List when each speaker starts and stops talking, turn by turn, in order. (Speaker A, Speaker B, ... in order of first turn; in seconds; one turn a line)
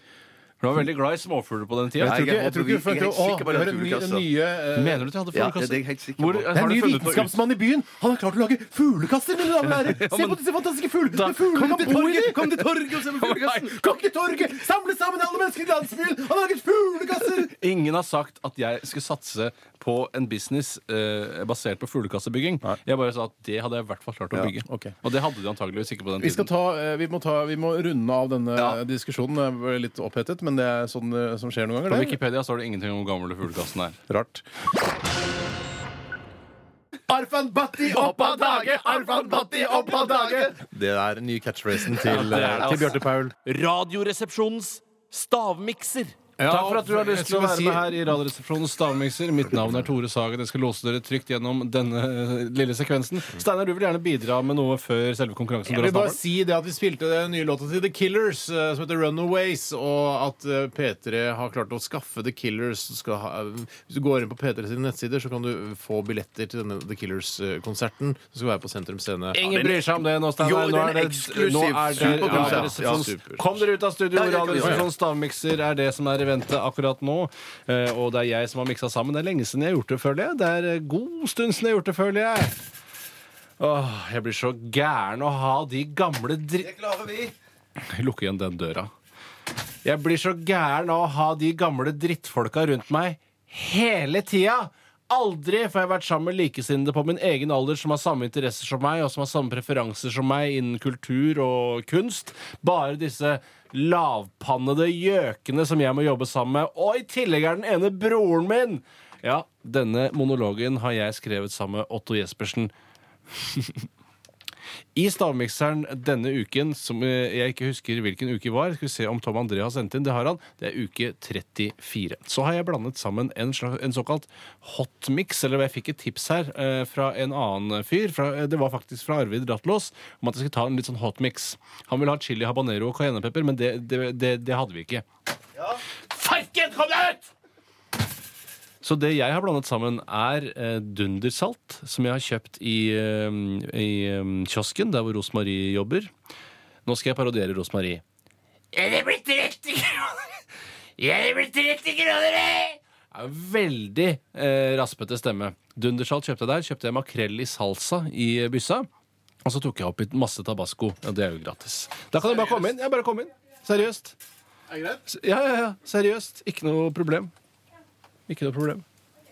Speaker A: 0.6-2.2
Speaker B: 2.0-5.1
Speaker C: 2.0-4.3
Speaker A: 4.8-7.4
Speaker C: 5.3-6.5
Speaker B: 6.5-17.5
Speaker A: 9.7-10.4
Speaker C: 11.5-13.8
Speaker A: 17.5-26.5
Speaker B: 24.7-24.9
Speaker B: 26.2-32.2
Speaker A: 31.9-34.0
Speaker B: 34.1-34.4
Speaker B: 37.1-43.4
Speaker C: 37.9-40.6
Speaker A: 42.0-56.2
Speaker B: 46.4-48.0
Speaker B: 55.7-69.4
Speaker A: 69.3-82.5
Speaker C: 69.4-73.1
Speaker B: 72.0-73.4
Speaker C: 74.1-74.9
Speaker B: 74.6-74.8
Speaker A: 83.6-86.7
Speaker C: 86.6-87.3
Speaker A: 87.9-88.9
Speaker A: 89.8-112.7
Speaker A: 113.3-113.8
Speaker A: 115.0-135.1
Speaker A: 136.1-137.3
Speaker A: 138.8-146.1
Speaker A: 146.9-148.0
Speaker A: 148.7-150.4
Speaker A: 151.0-158.9
Speaker A: 159.4-164.2
Speaker B: 164.7-165.0
Speaker A: 165.1-167.3
Speaker A: 168.3-168.8